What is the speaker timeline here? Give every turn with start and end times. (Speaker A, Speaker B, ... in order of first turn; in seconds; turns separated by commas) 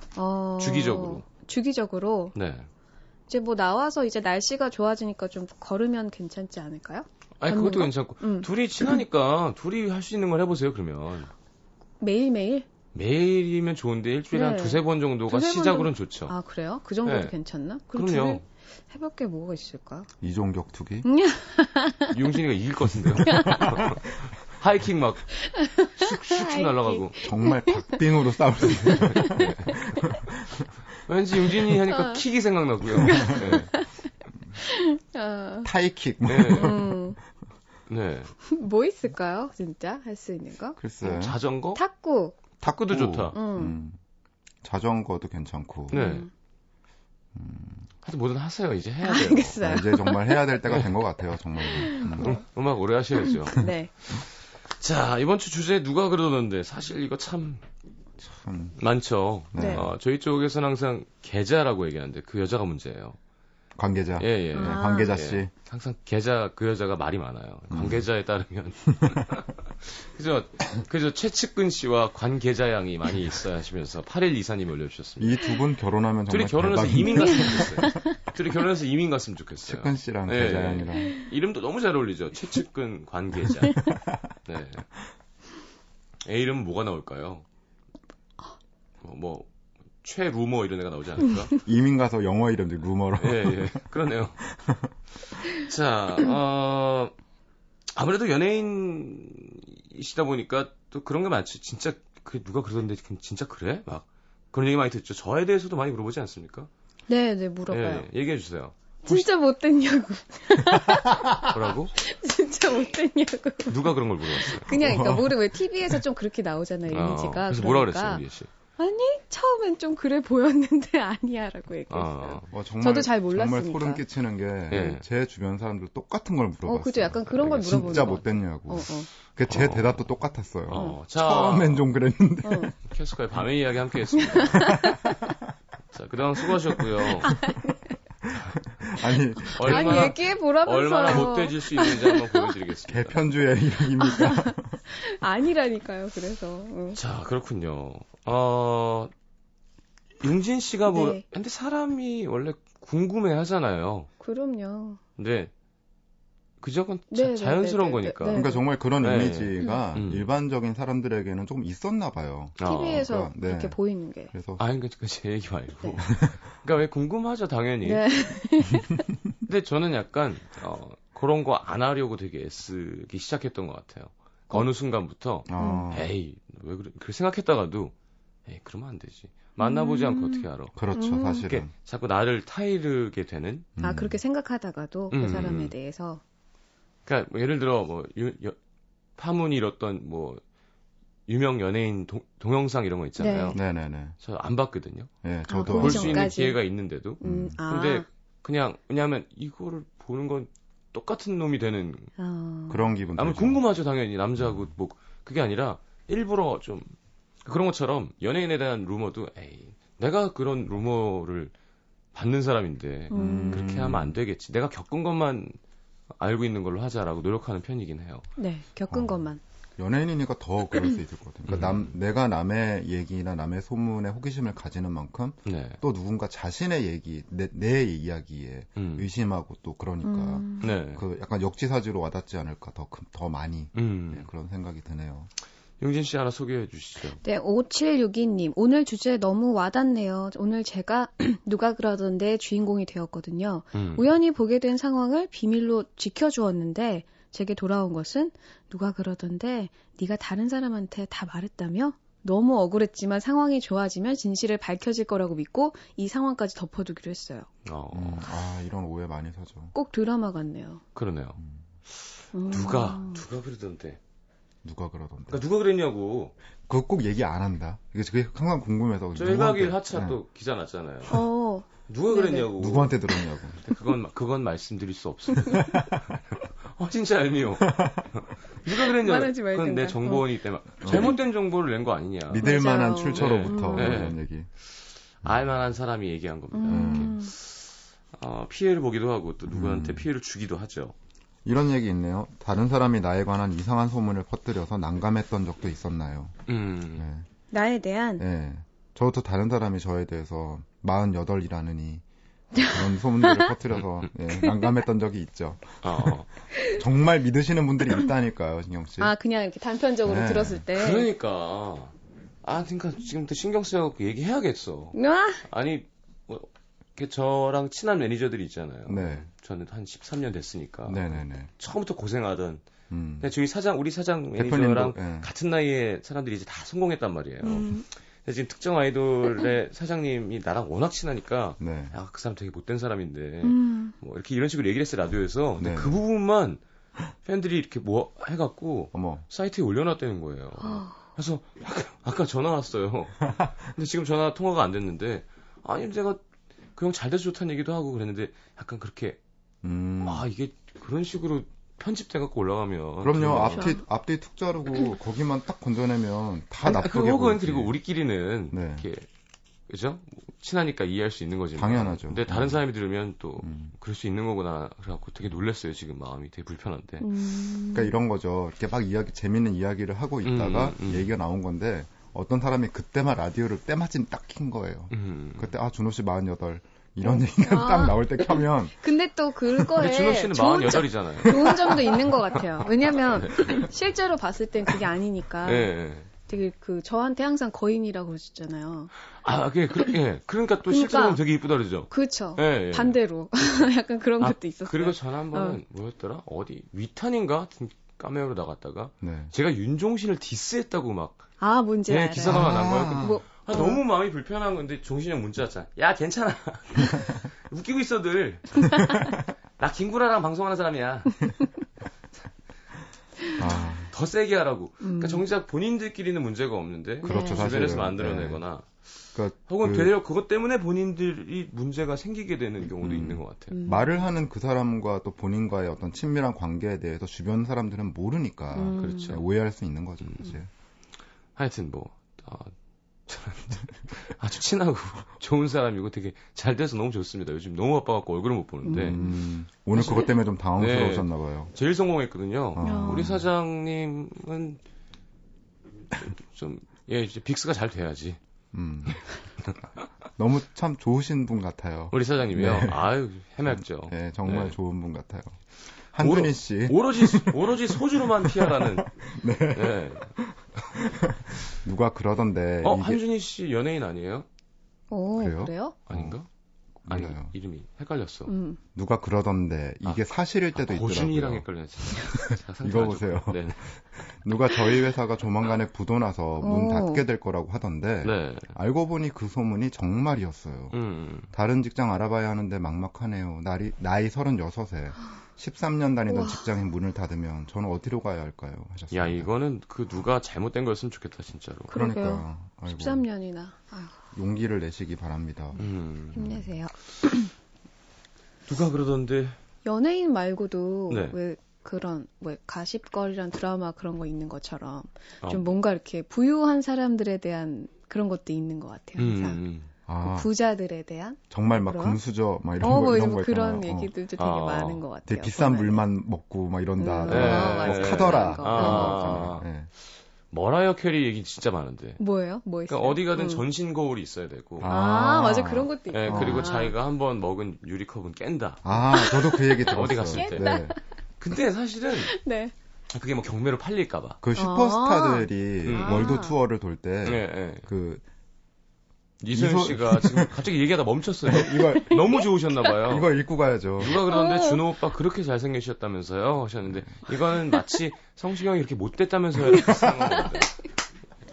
Speaker A: 0.2-2.4, Speaker B: 0.6-1.2, Speaker B: 2.4-2.7, Speaker A: 3.3-9.0, Speaker B: 7.4-11.3, Speaker A: 12.0-12.7, Speaker B: 12.9-16.3, Speaker A: 14.3-20.1, Speaker B: 17.0-17.3, Speaker B: 17.9-18.4, Speaker C: 20.2-21.1, Speaker A: 21.1-22.2, Speaker B: 22.1-25.3, Speaker C: 23.2-24.0, Speaker A: 23.2-23.9, Speaker A: 25.4-28.0, Speaker B: 26.0-27.2, Speaker C: 27.2-30.7, Speaker A: 28.7-29.8, Speaker B: 29.0-29.7, Speaker B: 31.1-33.7, Speaker A: 31.9-32.2, Speaker C: 33.0-33.7, Speaker A: 33.0-33.9, Speaker A: 34.6-35.7, Speaker C: 35.6-37.0, Speaker B: 36.3-36.8, Speaker A: 36.5-37.2, Speaker B: 37.9-38.3, Speaker A: 38.5-41.2, Speaker C: 40.8-41.4, Speaker B: 41.0-41.8, Speaker A: 41.8-42.4, Speaker B: 42.6-43.4, Speaker C: 42.6-44.0, Speaker A: 43.3-43.8, Speaker C: 44.6-46.0, Speaker B: 45.9-46.3, Speaker A: 45.9-46.3, Speaker C: 47.4-47.9, Speaker B: 48.0-49.8, Speaker A: 49.0-50.5, Speaker C: 49.6-52.4, Speaker B: 50.7-51.0, Speaker A: 51.6-52.4, Speaker B: 52.0-57.6, Speaker A: 53.3-53.9, Speaker C: 58.2-58.8, Speaker B: 58.8-63.2, Speaker C: 59.5-59.9, Speaker A: 59.5-59.9, Speaker C: 63.8-65.5, Speaker B: 64.2-75.5, Speaker A: 64.5-65.2, Speaker C: 67.7-68.0, Speaker C: 75.2-77.8, Speaker B: 76.3-84.9, Speaker A: 77.3-78.1, Speaker C: 79.7-81.2, Speaker C: 83.8-84.2, Speaker B: 86.2-87.5, Speaker B: 89.0-89.5, Speaker B: 90.0-91.6, Speaker C: 91.7-93.8, Speaker B: 93.2-94.4, Speaker C: 94.4-94.9, Speaker B: 95.5-97.2, Speaker B: 97.9-106.7, Speaker A: 107.1-108.1, Speaker B: 107.7-109.3, Speaker A: 109.0-118.2, Speaker C: 110.7-111.4, Speaker B: 111.5-111.9, Speaker B: 113.7-114.7, Speaker C: 114.7-116.0, Speaker B: 116.9-118.5, Speaker A: 118.8-124.0, Speaker B: 121.9-122.5, Speaker C: 122.5-132.7, Speaker B: 124.7-125.1, Speaker A: 126.7-129.1, Speaker B: 129.5-130.1, Speaker B: 130.7-131.9, Speaker A: 132.4-132.7, Speaker B: 132.8-134.8, Speaker A: 134.3-135.3, Speaker C: 134.5-135.4, Speaker B: 135.9-137.4, Speaker A: 137.2-137.8, Speaker C: 137.4-137.7, Speaker C: 138.2-140.2, Speaker B: 139.5-143.2, Speaker A: 139.6-142.5, Speaker C: 142.9-144.8, Speaker A: 144.0-147.0, Speaker B: 146.9-149.1, Speaker B: 150.2-154.1, Speaker A: 150.9-151.2, Speaker A: 154.2-155.0, Speaker B: 155.2-155.5, Speaker B: 156.6-158.4, Speaker A: 157.1-158.6, Speaker C: 158.3-163.8, Speaker B: 159.0-160.3, Speaker B: 162.6-163.1, Speaker A: 162.6-164.3, Speaker C: 164.3-164.6, Speaker B: 164.6-168.1, Speaker A: 167.8-169.1, Speaker B: 169.4-177.9, Speaker C: 175.5-176.1, Speaker A: 175.6-175.9, Speaker B: 178.5-180.8, Speaker A: 179.6-181.5, Speaker C: 180.8-181.7, Speaker B: 181.4-183.7, Speaker C: 183.8-184.2, Speaker A: 183.8-186.2, Speaker B: 185.1-185.7, Speaker B: 187.1-188.6, Speaker B: 189.2-190.4, Speaker B: 191.3-193.6, Speaker A: 193.2-193.6, Speaker C: 193.5-194.2, Speaker B: 194.2-195.1, Speaker C: 195.2-196.3, Speaker A: 195.5-196.6, Speaker B: 195.7-202.1, Speaker A: 197.2-198.1, Speaker C: 197.2-197.6, Speaker A: 202.2-202.9, Speaker C: 202.7-203.6, Speaker B: 203.2-206.9, Speaker B: 207.4-211.5, Speaker B: 212.1-215.6, Speaker A: 213.1-213.7, Speaker C: 213.1-214.2, Speaker B: 216.1-218.3, Speaker A: 218.4-219.4, Speaker C: 218.9-219.2, Speaker C: 219.8-235.3, Speaker B: 221.5-221.9, Speaker B: 225.4-225.8, Speaker B: 228.8-229.1, Speaker A: 230.0-230.8, Speaker B: 230.6-231.0, Speaker B: 233.8-234.3, Speaker B: 235.8-237.2, Speaker A: 237.2-257.5, Speaker B: 243.7-244.1, Speaker B: 257.6-258.3, Speaker C: 257.9-259.7, Speaker A: 259.7-260.8, Speaker B: 260.9-261.4, Speaker A: 262.3-263.2, Speaker B: 262.5-264.0, Speaker C: 264.6-265.4, Speaker B: 265.3-266.3, Speaker C: 266.7-270.2, Speaker B: 269.1-271.2, Speaker A: 271.1-272.5, Speaker B: 271.9-273.0, Speaker C: 272.6-273.6, Speaker B: 273.6-282.6, Speaker C: 275.6-276.0, Speaker C: 277.6-278.1, Speaker A: 279.0-280.3, Speaker C: 280.8-281.2, Speaker C: 282.3-284.5, Speaker A: 282.4-284.1, Speaker B: 283.1-284.2, Speaker B: 285.2-290.9, Speaker A: 286.5-287.3, Speaker C: 286.7-287.1, Speaker C: 289.5-290.1, Speaker C: 291.4-296.4, Speaker B: 296.5-297.1, Speaker C: 297.0-297.3, Speaker A: 297.5-298.2, Speaker C: 298.2-302.0, Speaker A: 302.6-303.5, Speaker C: 302.6-309.1, Speaker B: 305.8-306.3, Speaker A: 309.0-311.1, Speaker C: 310.0-310.6, Speaker B: 310.7-322.7, Speaker A: 314.9-315.4, Speaker C: 318.9-319.3, Speaker C: 320.9-321.5, Speaker C: 322.9-323.3, Speaker B: 323.2-336.6, Speaker C: 324.4-325.3, Speaker A: 327.4-327.9, Speaker C: 331.6-331.9, Speaker A: 333.4-333.9, Speaker C: 335.6-336.0, Speaker B: 337.2-346.2, Speaker C: 338.9-339.2, Speaker A: 340.6-341.0, Speaker B: 346.8-349.2, Speaker C: 349.6-350.3, Speaker B: 350.0-353.7, Speaker C: 353.0-357.7, Speaker B: 356.6-359.1, Speaker C: 358.5-358.9, Speaker B: 359.7-367.1, Speaker C: 361.6-362.6, Speaker C: 363.4-363.7, Speaker A: 367.0-367.9, Speaker C: 367.7-378.7, Speaker B: 370.2-371.1, Speaker B: 374.9-375.6, Speaker A: 377.1-385.7, Speaker B: 379.7-382.2, Speaker B: 383.1-383.6, Speaker B: 385.4-386.1, Speaker A: 386.3-388.9, Speaker B: 389.2-393.7, Speaker A: 390.7-391.2, Speaker A: 391.9-395.6, Speaker B: 394.2-401.3, Speaker C: 399.0-399.3, Speaker A: 401.4-403.8, Speaker B: 401.9-408.9, Speaker C: 402.2-403.2, Speaker C: 408.8-409.1, Speaker B: 409.6-411.3, Speaker C: 413.4-413.9, Speaker B: 413.9-418.8, Speaker A: 414.8-415.2, Speaker A: 417.0-417.5, Speaker C: 417.0-418.4, Speaker C: 419.1-419.9, Speaker B: 419.5-423.6, Speaker C: 422.8-430.5, Speaker A: 423.5-423.9, Speaker A: 428.5-429.2, Speaker B: 428.7-429.2, Speaker B: 431.4-432.5, Speaker B: 433.1-439.1, Speaker A: 438.6-439.1, Speaker C: 438.7-441.5, Speaker B: 439.7-444.6, Speaker C: 442.6-443.3, Speaker A: 442.6-443.2, Speaker B: 445.9-448.2, Speaker C: 448.5-449.0, Speaker C: 450.2-452.9, Speaker B: 451.9-454.6, Speaker C: 453.5-455.4, Speaker C: 455.9-463.0, Speaker B: 456.0-458.9, Speaker B: 459.6-460.1, Speaker B: 462.6-464.3, Speaker A: 464.9-465.8, Speaker C: 465.2-466.1, Speaker B: 465.9-466.3, Speaker C: 466.9-467.3, Speaker B: 466.9-468.3, Speaker A: 468.3-468.6, Speaker C: 468.8-473.6, Speaker B: 470.5-473.7, Speaker C: 474.1-480.8, Speaker A: 476.4-477.0, Speaker B: 478.0-478.5, Speaker B: 480.7-481.3, Speaker C: 481.3-489.3, Speaker A: 486.1-486.5, Speaker B: 488.9-491.7, Speaker A: 491.7-493.9, Speaker C: 491.7-493.0, Speaker C: 494.1-495.6, Speaker B: 495.6-496.4, Speaker A: 496.1-497.3, Speaker B: 498.5-499.4, Speaker A: 499.6-509.4, Speaker B: 500.9-501.2, Speaker B: 509.0-509.7, Speaker C: 509.9-510.3, Speaker A: 510.0-512.0, Speaker C: 511.3-513.9, Speaker A: 512.6-515.8, Speaker B: 514.2-514.8, Speaker C: 515.1-519.7, Speaker A: 516.8-519.2, Speaker B: 517.1-519.5, Speaker B: 520.3-522.0, Speaker A: 522.0-523.4, Speaker B: 522.7-524.7, Speaker C: 524.6-526.6, Speaker A: 524.6-526.8, Speaker B: 525.9-530.6, Speaker C: 528.6-530.8, Speaker A: 528.9-530.8, Speaker B: 531.2-532.1, Speaker A: 532.0-532.5, Speaker B: 532.9-534.2, Speaker C: 534.2-538.0, Speaker A: 534.4-536.4, Speaker B: 535.6-536.2, Speaker B: 537.0-537.7, Speaker B: 539.2-543.1, Speaker C: 539.3-540.5, Speaker C: 541.2-542.2, Speaker C: 542.9-544.0, Speaker B: 543.8-550.5, Speaker A: 544.1-544.6, Speaker C: 546.7-547.0, Speaker C: 549.6-550.3, Speaker A: 549.8-550.3